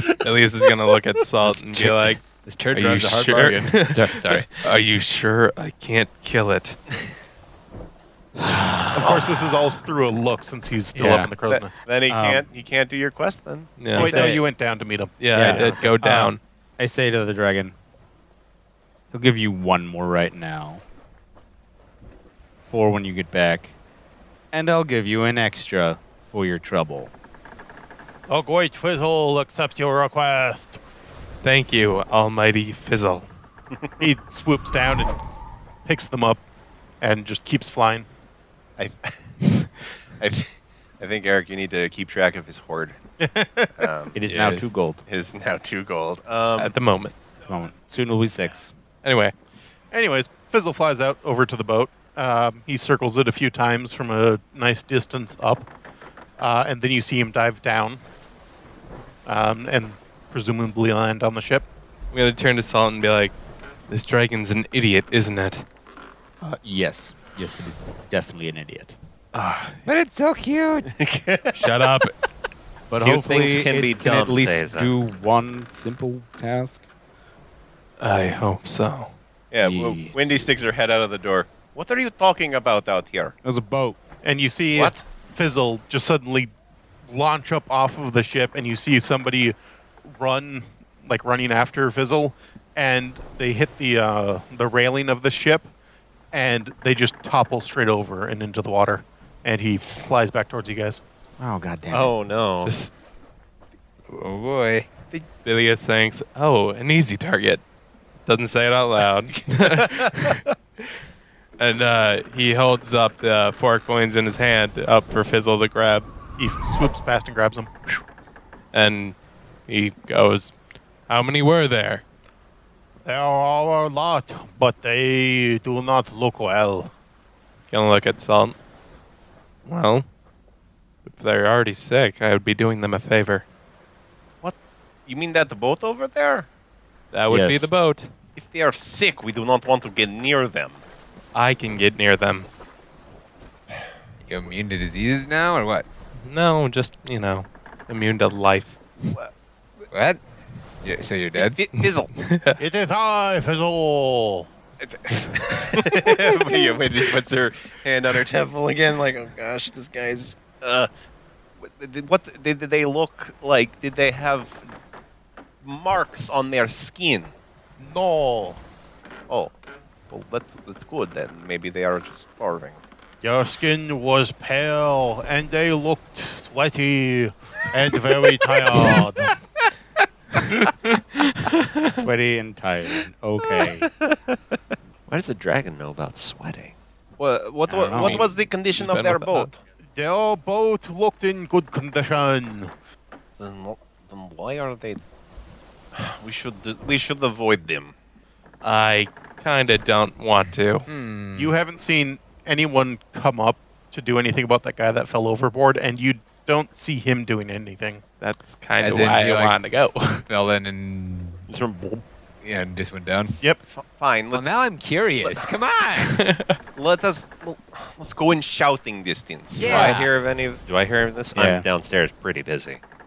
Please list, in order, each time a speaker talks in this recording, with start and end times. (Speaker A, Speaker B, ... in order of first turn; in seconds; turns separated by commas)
Speaker A: 0.2-6.8, Speaker B: 1.4-4.7, Speaker C: 8.4-9.2, Speaker D: 8.9-11.8, Speaker C: 10.9-11.3, Speaker E: 11.5-14.3, Speaker C: 12.1-12.4, Speaker A: 13.8-14.2, Speaker D: 13.9-15.8, Speaker C: 13.9-14.4, Speaker A: 15.2-16.4, Speaker C: 15.3-17.8, Speaker C: 19.1-20.8, Speaker C: 22.6-23.7, Speaker C: 24.5-27.1, Speaker D: 28.3-30.8, Speaker A: 31.4-33.3, Speaker D: 34.0-35.2, Speaker D: 35.9-36.4, Speaker D: 37.0-38.1, Speaker E: 38.8-39.4, Speaker E: 40.2-43.0, Speaker D: 43.2-43.9, Speaker E: 43.8-44.2, Speaker C: 44.1-45.0, Speaker B: 44.3-44.7, Speaker E: 45.0-46.8, Speaker A: 46.6-47.1, Speaker C: 47.5-48.7, Speaker A: 49.0-49.3, Speaker D: 49.9-55.7, Speaker D: 56.4-58.0, Speaker D: 59.3-61.7, Speaker A: 62.1-63.4, Speaker A: 63.9-65.7, Speaker C: 66.4-69.0, Speaker A: 69.3-69.8, Speaker B: 69.8-70.9, Speaker E: 70.9-71.6, Speaker A: 71.6-72.1, Speaker C: 72.9-76.8, Speaker F: 73.0-74.9, Speaker A: 78.0-79.1, Speaker E: 79.5-83.3, Speaker C: 79.6-80.4, Speaker C: 83.4-84.0, Speaker D: 84.2-86.5, Speaker E: 84.7-85.0, Speaker D: 87.1-95.7, Speaker D: 96.3-101.0, Speaker C: 101.4-102.2, Speaker F: 101.9-102.7, Speaker A: 102.6-102.9, Speaker B: 104.1-104.9, Speaker A: 105.5-107.6, Speaker A: 108.3-110.9, Speaker E: 109.3-110.1, Speaker A: 111.6-116.1, Speaker D: 116.4-118.0, Speaker A: 118.7-119.2, Speaker A: 119.7-120.5, Speaker A: 121.1-122.0, Speaker D: 123.0-126.9, Speaker A: 127.7-128.6, Speaker A: 129.7-130.1, Speaker A: 131.1-133.4, Speaker E: 134.4-136.5, Speaker A: 137.1-138.1, Speaker C: 137.3-137.7, Speaker E: 138.4-140.8, Speaker A: 141.3-142.5, Speaker B: 144.2-145.9, Speaker A: 146.2-148.8, Speaker B: 149.9-150.2, Speaker B: 150.8-151.6, Speaker E: 151.3-152.1, Speaker A: 151.8-152.6, Speaker D: 152.6-154.5, Speaker E: 154.8-160.9, Speaker E: 161.6-164.7, Speaker E: 165.6-167.3, Speaker D: 167.8-168.6, Speaker E: 169.3-169.5, Speaker E: 170.1-172.8, Speaker D: 173.2-179.4, Speaker C: 181.8-183.9, Speaker F: 184.0-184.4, Speaker F: 185.1-186.7, Speaker E: 187.2-189.6, Speaker C: 187.7-188.3, Speaker A: 187.9-189.5, Speaker D: 190.0-192.7, Speaker E: 193.4-195.0, Speaker E: 195.9-197.9, Speaker A: 198.6-200.9, Speaker B: 200.9-201.6, Speaker D: 201.3-208.0, Speaker A: 208.2-210.2, Speaker B: 208.8-209.6, Speaker B: 210.3-211.4, Speaker F: 211.5-212.0, Speaker B: 212.4-213.4, Speaker E: 213.7-214.6, Speaker B: 214.3-216.2, Speaker E: 215.2-215.5, Speaker A: 216.1-216.6, Speaker E: 216.8-219.9, Speaker B: 219.5-220.1, Speaker F: 219.6-222.8, Speaker C: 221.3-221.7